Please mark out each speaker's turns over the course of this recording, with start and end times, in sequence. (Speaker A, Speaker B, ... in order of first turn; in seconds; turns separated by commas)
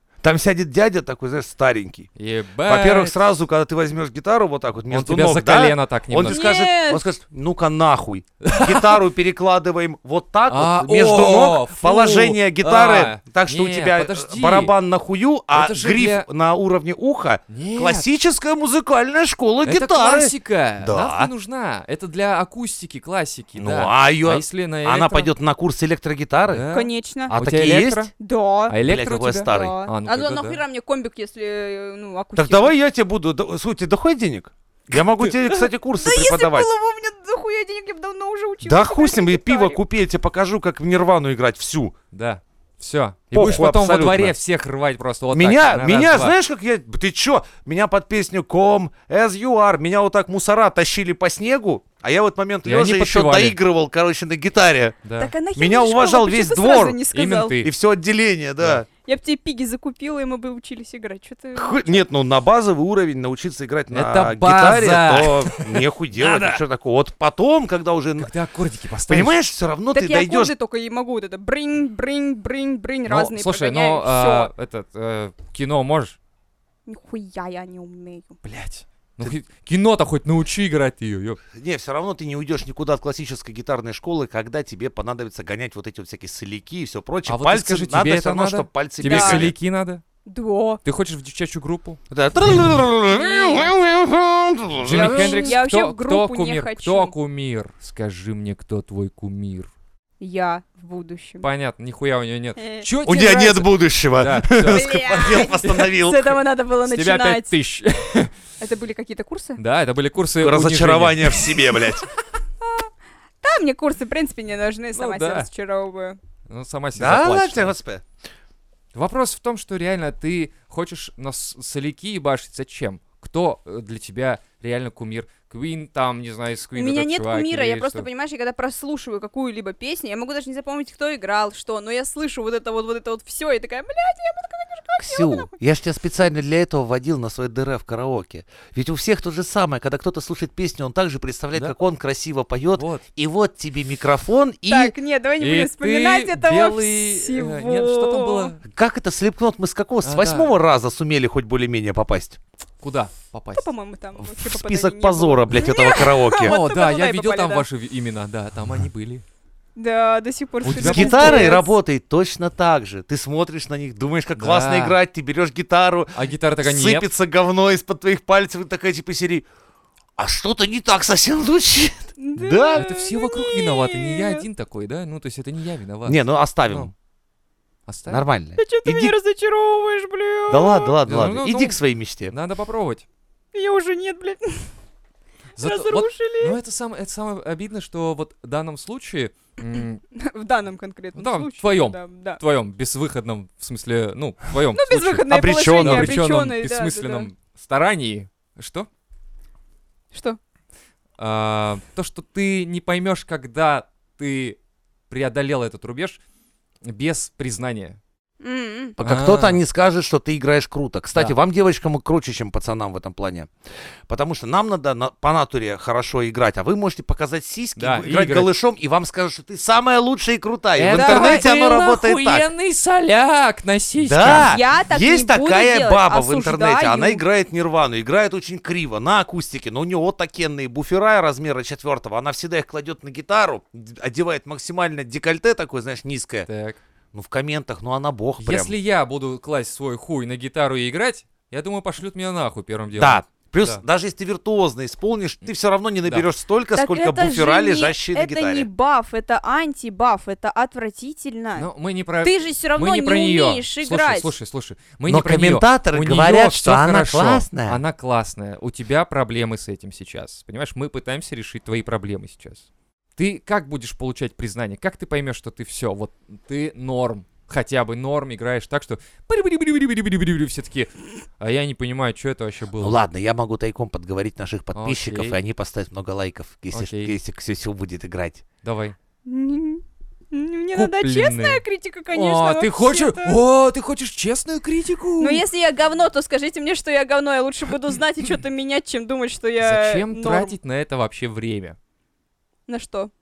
Speaker A: 0.2-2.1, Speaker B: 2.2-3.2, Speaker A: 2.6-21.3, Speaker B: 4.9-6.7, Speaker C: 6.3-7.1, Speaker B: 8.4-9.0, Speaker B: 10.5-14.8, Speaker B: 15.5-16.3, Speaker B: 17.5-18.1, Speaker B: 19.6-25.3, Speaker A: 23.6-26.6, Speaker B: 26.5-28.1, Speaker C: 26.7-27.4, Speaker A: 27.3-28.1, Speaker C: 28.2-28.8, Speaker B: 28.7-30.6, Speaker A: 28.8-29.8, Speaker C: 29.5-32.7, Speaker A: 32.4-36.7, Speaker B: 35.0-35.6, Speaker C: 36.0-39.8, Speaker A: 38.6-42.0, Speaker B: 42.1-46.4, Speaker A: 43.3-44.3, Speaker A: 45.3-55.0, Speaker B: 52.6-53.6, Speaker B: 55.0-55.3, Speaker C: 55.2-57.6, Speaker A: 55.5-57.0, Speaker B: 57.1-57.7, Speaker A: 57.6-58.9, Speaker C: 59.0-62.0, Speaker A: 61.5-68.3, Speaker B: 63.9-66.6, Speaker B: 68.2-69.4, Speaker A: 69.1-70.5, Speaker C: 69.9-74.5, Speaker B: 73.1-76.2, Speaker C: 76.9-78.4, Speaker B: 78.4-81.4, Speaker A: 81.5-89.5, Speaker B: 87.3-90.0, Speaker C: 89.0-89.5, Speaker C: 90.2-90.8, Speaker B: 90.8-92.0, Speaker A: 92.1-95.5, Speaker C: 93.1-93.7, Speaker B: 94.8-99.7, Speaker C: 94.9-97.1, Speaker C: 100.2-101.5, Speaker B: 101.4-105.9, Speaker C: 102.6-102.9, Speaker A: 103.0-106.3, Speaker C: 104.7-107.5, Speaker B: 106.8-108.3, Speaker C: 108.6-109.6, Speaker B: 109.6-112.1, Speaker A: 110.4-112.1, Speaker C: 112.6-112.9, Speaker C: 113.4-116.2, Speaker B: 115.0-115.5, Speaker B: 116.5-117.8, Speaker A: 116.9-118.0, Speaker B: 118.9-128.1, Speaker C: 126.8-135.5, Speaker A: 135.0-144.9, Speaker B: 142.8-143.1, Speaker C: 144.7-148.6, Speaker B: 145.4-148.6, Speaker A: 148.7-152.4, Speaker B: 150.0-150.5, Speaker B: 152.8-153.7, Speaker C: 153.5-157.7, Speaker A: 154.2-156.6, Speaker B: 156.4-159.2, Speaker C: 159.8-161.7, Speaker B: 160.6-161.6, Speaker A: 160.8-169.5, Speaker B: 164.4-165.0, Speaker B: 166.1-167.1, Speaker A: 170.2-172.9, Speaker C: 172.2-174.4, Speaker B: 172.8-176.9, Speaker A: 176.1-176.9, Speaker B: 177.9-178.2, Speaker A: 178.1-179.1, Speaker C: 178.6-181.0, Speaker A: 180.5-182.3, Speaker B: 181.1-183.1, Speaker C: 183.5-184.7, Speaker B: 185.6-190.0, Speaker C: 185.6-186.6, Speaker C: 190.2-192.4, Speaker B: 191.1-198.9, Speaker C: 194.7-197.3, Speaker A: 195.3-196.2, Speaker C: 200.1-200.4, Speaker B: 201.2-204.6, Speaker B: 205.1-206.2, Speaker B: 206.8-208.0, Speaker C: 208.4-209.0, Speaker A: 209.0-213.5, Speaker B: 209.0-209.6, Speaker A: 214.1-222.5, Speaker B: 217.8-218.5, Speaker B: 220.8-224.5, Speaker C: 220.9-221.5, Speaker A: 224.0-236.5, Speaker C: 224.2-227.2, Speaker B: 236.5-236.8, Speaker A: 237.1-238.8, Speaker B: 238.4-243.8, Speaker A: 243.0-248.7, Speaker C: 246.8-251.7, Speaker B: 251.6-262.7, Speaker C: 252.2-254.3, Speaker A: 255.1-257.8, Speaker B: 263.2-273.0, Speaker A: 272.8-278.4, Speaker B: 274.7-275.4, Speaker B: 276.7-277.1, Speaker B: 278.6-279.0, Speaker C: 279.2-283.4, Speaker B: 280.7-281.6, Speaker B: 282.1-285.4, Speaker C: 285.2-290.5, Speaker B: 289.6-291.8, Speaker C: 292.7-293.1